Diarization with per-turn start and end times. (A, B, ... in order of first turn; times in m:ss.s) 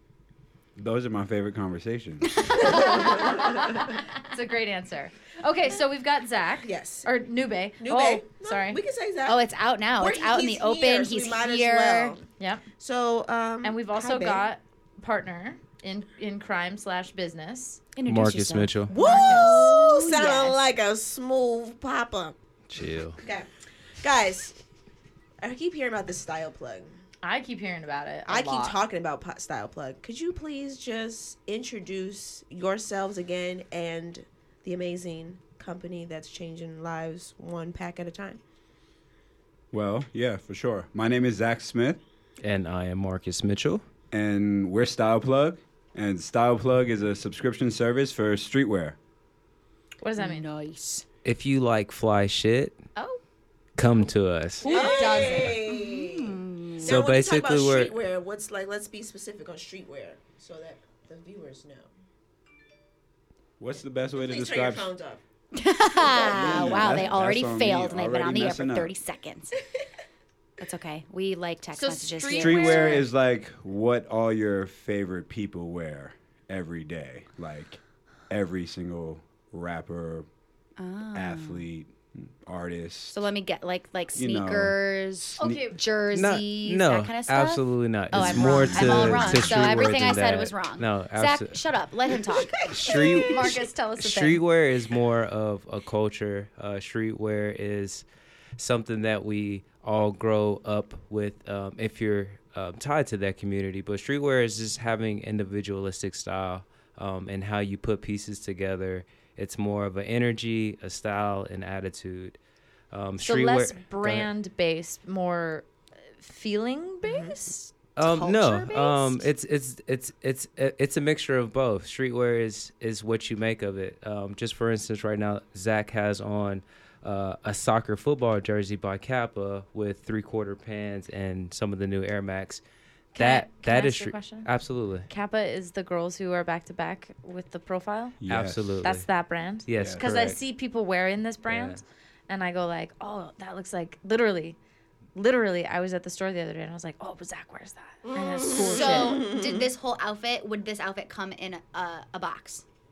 0:00.8-0:02.4 A
0:02.3-0:03.6 B
0:02.6-0:08.8 C
0:02.7-0:03.8 D
0:06.6-0:07.1 D
0:07.8-0:12.2 D
0:09.3-0:12.2 B
0:12.4-0:12.7 C
0:12.8-0:14.5 D
0:13.6-0:17.9 C
0:18.0-0:20.6 B
0:18.1-0:18.9 E
0:18.9-0:22.4 D
0:19.0-0:19.6 C
0:22.7-0:23.2 E
0:23.2-0:24.6 D
0:25.4-0:27.0 D
0:27.2-0:28.8 C
0:28.3-0:38.4 D
0:39.7-0:42.0 A
0:42.4-0:43.8 E
0:44.1-0:49.0 A
0:50.0-0:50.5 C
0:50.2-0:51.1 B
0:51.2-0:52.8 E
0:53.8-0:54.7 E
0:54.6-0:57.0 B
0:54.6-1:01.9 D
0:54.7-0:55.6 C
0:56.8-0:57.9 E
1:03.6-1:04.9 A
1:04.2-1:05.2 D
1:05.5-1:09.6 B
1:06.0-1:07.1 D
1:06.2-1:08.9 A
1:10.6-1:13.0 B
1:11.7-1:13.1 C
1:12.3-1:20.3 A
1:20.8-1:21.7 B
1:21.2-1:23.2 A
1:23.1-1:34.4 B
1:24.2-1:24.8 A
1:25.4-1:25.8 C
1:26.1-1:31.6 E
1:28.2-1:29.8 A
1:32.4-1:33.5 D
1:32.6-1:38.0 E
1:38.6-1:52.4 E
1:52.9-1:54.3 E
1:53.2-1:55.7 C
1:56.2-1:57.7 C
1:57.0-1:57.4 D
1:58.0-2:12.6 E
1:58.1-1:58.7 D
2:13.1-2:15.1 E
2:13.2-2:14.5 C
2:15.1-2:18.2 C
2:18.2-2:18.8 A
2:18.3-2:19.1 E
2:18.8-2:24.6 C
2:19.7-2:20.4 E
2:19.8-2:20.0 A
2:21.5-2:21.8 E
2:25.2-2:29.2 C
2:28.0-2:29.7 D
2:28.5-2:32.6 B